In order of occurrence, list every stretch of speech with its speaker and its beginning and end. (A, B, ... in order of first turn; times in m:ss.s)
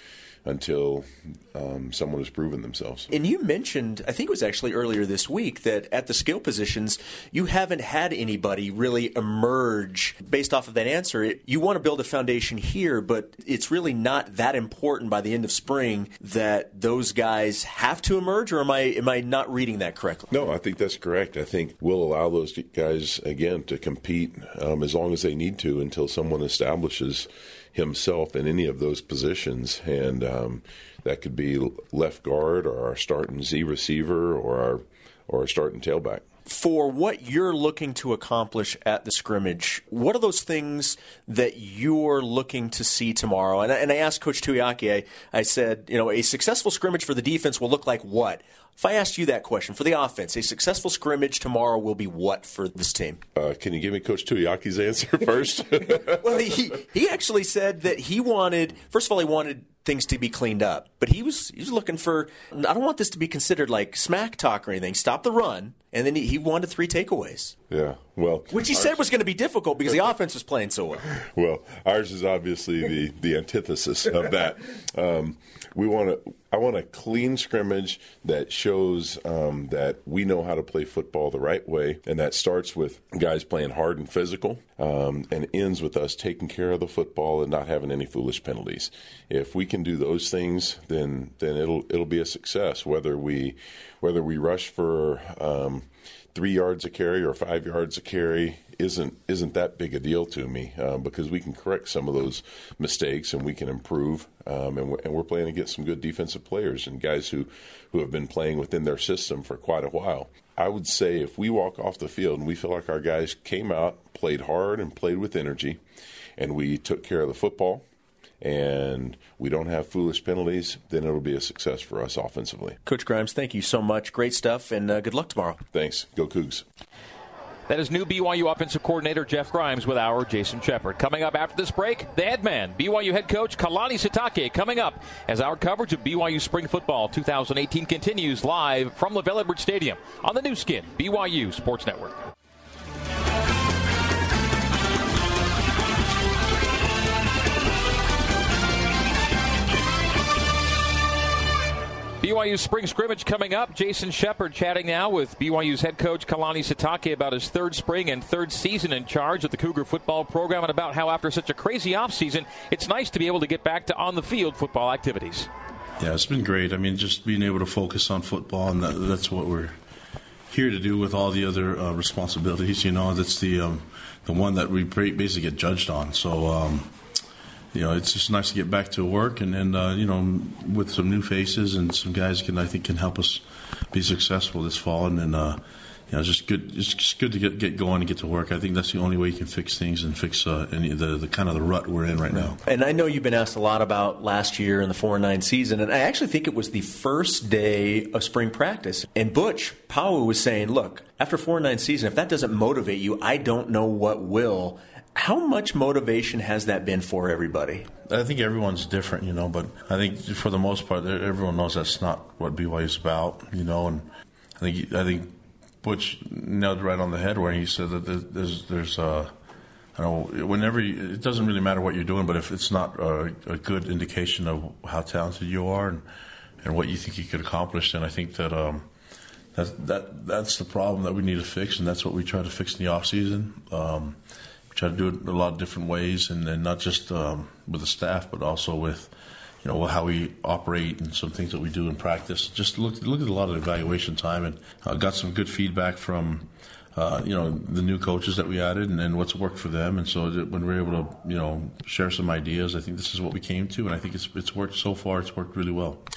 0:00.4-0:03.1 A
0:03.1-0:20.3 B
0:20.3-0:36.2 A
0:36.5-0:53.2 B
0:53.4-0:56.5 A
0:55.9-1:07.6 B
1:07.7-1:09.1 A
1:08.5-1:11.0 B
1:11.1-1:55.8 A
1:56.4-1:57.8 A
1:58.4-2:02.8 A
2:02.8-2:05.6 B
2:05.7-2:06.6 A
2:07.7-2:22.2 C
2:32.2-2:45.5 C
2:46.0-2:49.8 D
2:50.5-2:56.9 D
2:57.7-3:12.6 D
3:12.3-3:27.9 B
3:28.0-3:39.3 D
3:39.9-3:46.0 D
3:46.6-3:48.9 D
3:49.5-3:54.2 D
3:54.7-4:16.0 D